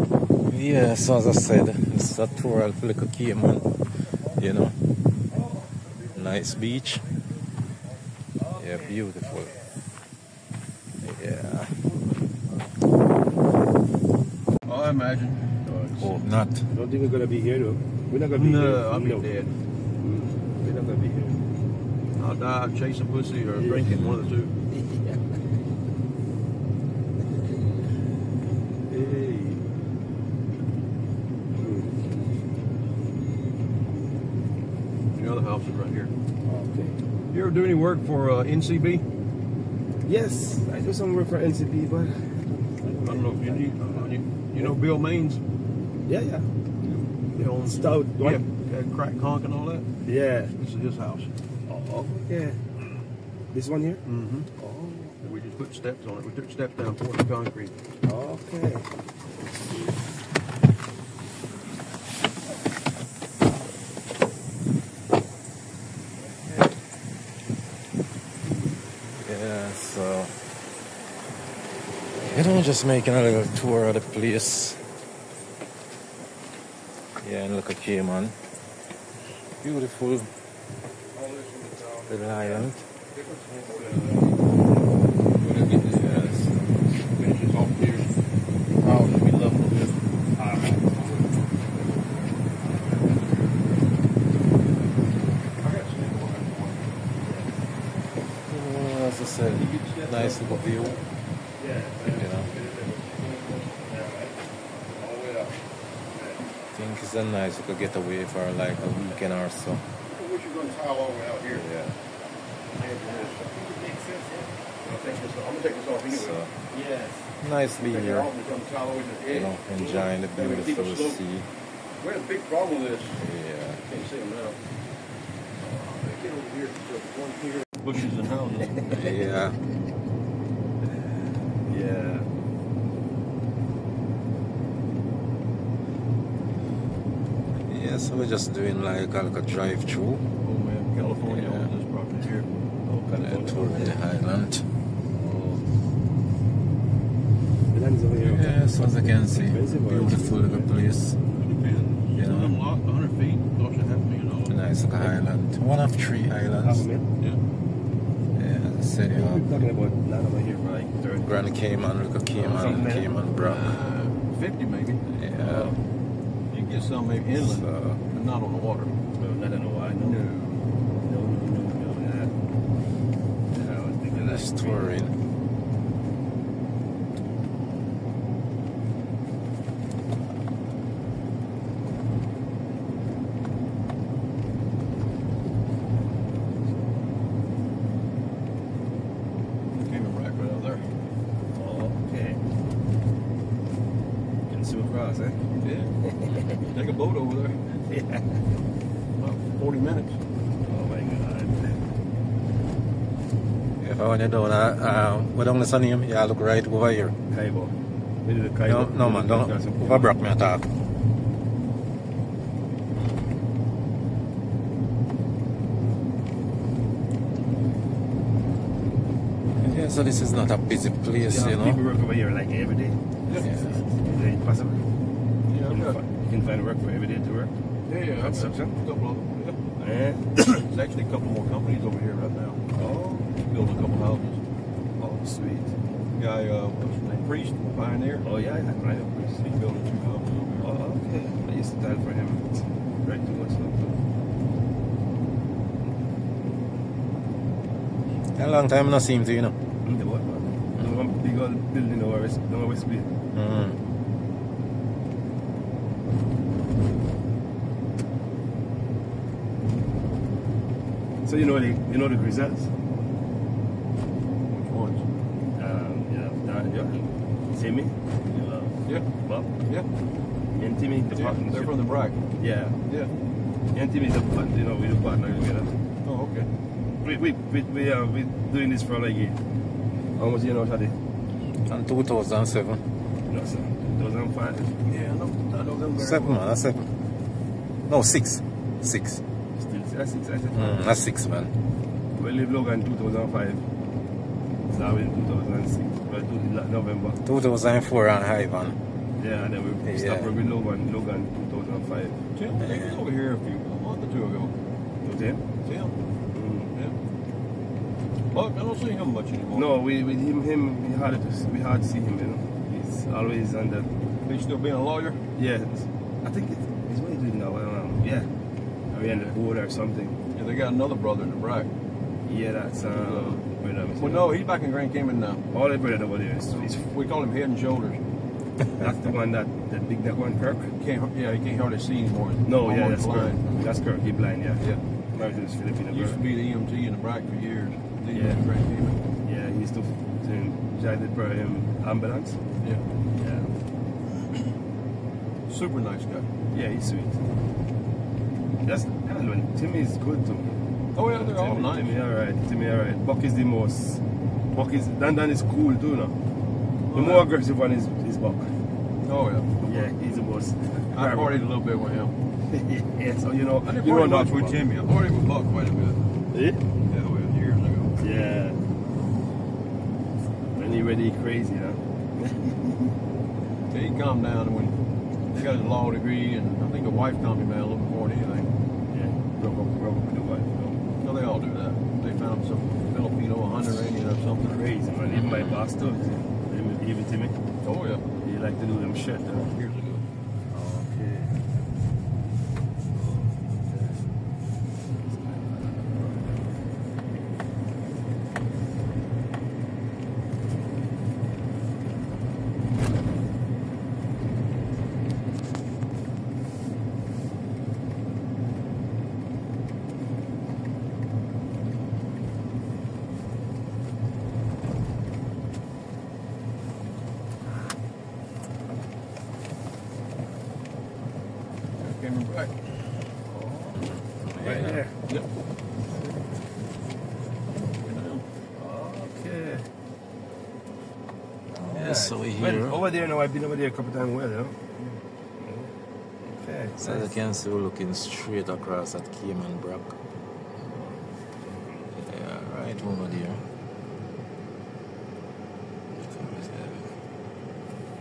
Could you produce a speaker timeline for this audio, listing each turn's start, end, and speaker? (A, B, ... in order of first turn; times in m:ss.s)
0:00.4-0:04.8 A
0:06.1-0:07.0 A
0:08.5-0:09.5 A
0:11.0-0:11.8 A
0:14.6-0:15.6 B
0:15.7-0:16.0 C
0:16.0-0:16.6 A
0:16.7-0:19.2 C
0:18.3-0:19.5 B
0:20.0-0:21.4 C
0:22.2-0:24.5 B
0:23.6-0:24.0 C
0:24.7-0:25.2 C
0:28.9-0:29.6 C
0:31.5-0:32.0 C
0:35.1-0:36.1 B
0:36.4-0:37.0 C
0:37.3-0:39.0 B
0:40.0-0:44.7 C
0:43.0-0:45.4 B
0:46.1-0:46.5 C
0:46.8-0:49.9 B
0:47.6-0:48.4 C
0:50.0-0:50.5 C
0:50.5-0:51.3 B
0:51.7-0:52.6 C
0:53.5-0:54.0 C
0:54.1-0:54.5 B
0:54.6-0:55.2 C
0:55.2-0:57.7 B
0:58.0-0:58.9 C
1:09.1-1:10.3 A
1:12.2-1:14.8 A
1:17.2-1:18.4 A
1:19.6-1:20.3 A
1:21.2-1:22.6 C
1:22.1-1:22.8 A
1:23.2-1:24.3 B
1:23.2-1:24.3 C
1:25.4-1:26.4 B
1:25.9-1:26.5 A
1:27.1-1:28.1 B
1:28.8-1:30.0 B
1:30.4-1:31.3 C
1:35.6-1:37.0 B
1:37.2-1:37.6 C
1:38.5-1:41.0 A
1:39.6-1:41.0 B
1:41.6-1:44.3 C
1:42.1-1:42.5 A
1:45.0-1:45.5 B
1:45.1-1:45.4 C
1:46.2-1:46.4 C
1:46.7-1:49.8 A
1:50.1-1:51.6 B
1:51.5-1:52.0 A
1:52.8-1:53.4 B
1:52.8-1:55.2 C
1:54.8-1:56.4 B
1:56.1-1:56.5 A
1:56.7-1:57.2 C
1:57.4-1:58.3 A
1:57.8-2:01.2 B
1:59.3-2:01.5 A
2:02.0-2:03.2 B
2:03.2-2:03.8 A
2:03.8-2:04.6 B
2:05.6-2:09.0 B
2:08.9-2:09.6 A
2:11.7-2:12.2 B
2:11.7-2:12.2 C
2:17.5-2:20.2 A
2:20.4-2:23.9 B
2:21.2-2:21.7 A
2:23.1-2:24.7 A
2:23.3-2:23.9 C
2:25.1-2:25.6 C
2:27.7-2:30.7 C
2:28.2-2:31.2 A
2:31.3-2:34.6 B
2:32.2-2:32.6 A
2:34.4-2:36.8 A
2:36.6-2:37.1 C
2:38.3-2:39.6 A
2:39.1-2:41.3 C
2:41.2-2:43.7 A
2:42.4-2:43.2 C
2:42.4-2:45.0 B
2:45.2-2:45.7 A
2:45.4-2:45.8 C
2:46.5-2:48.9 B
2:47.4-2:48.0 A
2:49.2-2:50.3 C
2:50.0-2:50.6 B
2:51.0-2:52.3 C
2:53.5-2:54.9 C
2:54.1-2:55.1 A
3:09.7-3:10.9 B
3:11.5-3:12.4 C
3:14.5-3:15.5 C
3:15.6-3:15.9 B
3:16.0-3:16.5 C
3:16.6-3:17.6 B
3:17.9-3:18.4 C
3:19.2-3:20.2 B
3:20.6-3:21.8 C
3:23.8-3:27.1 A
3:27.3-3:27.7 C
3:28.2-3:30.1 C
3:28.6-3:30.7 A
3:39.6-3:41.8 A
3:41.2-3:43.0 C
3:43.3-3:43.5 B
3:43.4-3:43.7 A
3:44.0-3:44.8 C
3:45.5-3:46.0 B
3:45.7-3:47.5 C
3:47.9-3:49.6 B
3:48.2-3:48.8 C
3:49.8-3:50.3 C
3:50.4-3:52.6 B
3:52.8-3:53.3 C
3:53.4-3:54.6 B
3:55.0-3:55.7 C
3:56.1-3:58.2 B
3:58.2-3:59.5 C
3:59.4-4:00.7 B
4:00.6-4:04.0 C
4:08.3-4:09.6 A
4:09.8-4:13.1 C
4:13.3-4:13.8 A
4:21.2-4:22.7 C
4:24.5-4:25.1 B
4:25.6-4:29.5 C
4:30.5-4:31.8 C
4:31.1-4:32.2 B
4:32.4-4:32.8 C
4:33.7-4:35.7 C
4:36.0-4:36.5 B
4:37.0-4:39.4 C
4:40.2-4:40.9 C
4:41.6-4:42.8 A
4:43.3-4:44.8 C
4:44.8-4:46.4 B
4:46.0-4:46.9 A
4:47.9-4:49.2 A
4:49.6-4:50.8 C
4:50.5-4:51.5 A
4:52.2-4:53.6 C
4:54.7-4:57.2 C
4:57.2-4:58.8 A
4:59.2-5:02.2 C
4:59.8-5:00.3 A
5:02.4-5:04.5 B
5:02.6-5:03.0 A
5:05.0-5:05.4 C
5:05.6-5:05.9 B
5:06.3-5:06.7 C
5:08.3-5:09.8 B
5:09.5-5:13.9 C
5:14.2-5:15.2 B
5:15.4-5:18.3 C
5:18.9-5:20.2 C
5:20.3-5:21.7 B
5:22.2-5:24.3 C
5:22.9-5:23.4 B
5:24.0-5:25.4 B
5:25.5-5:26.8 C
5:26.5-5:28.0 B
5:28.8-5:30.7 C
5:30.8-5:33.4 B
5:32.4-5:36.2 C
5:35.9-5:39.0 B
5:38.1-5:38.4 C
5:39.2-5:42.4 C
5:43.1-5:43.5 C
5:45.5-5:46.3 B
5:46.5-5:47.2 C
5:48.6-5:50.6 C
5:50.9-5:52.0 B
5:51.1-5:54.0 C
5:54.5-5:56.1 C
5:56.9-5:57.3 B
5:56.9-5:58.5 C
5:59.0-5:59.9 B
5:59.6-6:01.4 C
6:00.9-6:02.1 B
6:02.5-6:04.6 C
6:03.6-6:06.0 B
6:06.3-6:06.6 C
6:06.9-6:08.0 B
6:08.0-6:08.6 C
6:10.6-6:12.8 C
6:13.7-6:14.8 B
6:15.3-6:18.5 B
6:18.9-6:20.8 C
6:21.0-6:24.6 B
6:24.4-6:27.4 C
6:27.6-6:28.0 B
6:28.2-6:29.4 C
6:29.3-6:30.0 B
6:30.5-6:31.4 C
6:33.0-6:34.0 C
6:35.1-6:36.3 C
7:01.8-7:02.8 B
7:03.3-7:04.9 C
7:04.3-7:04.8 A
7:07.8-7:08.2 B
7:08.6-7:09.7 C
7:11.5-7:14.6 C
7:11.6-7:12.8 A
7:15.4-7:15.7 C
7:16.2-7:17.1 C
7:16.8-7:19.9 A
7:21.9-7:23.4 A
7:26.0-7:26.9 A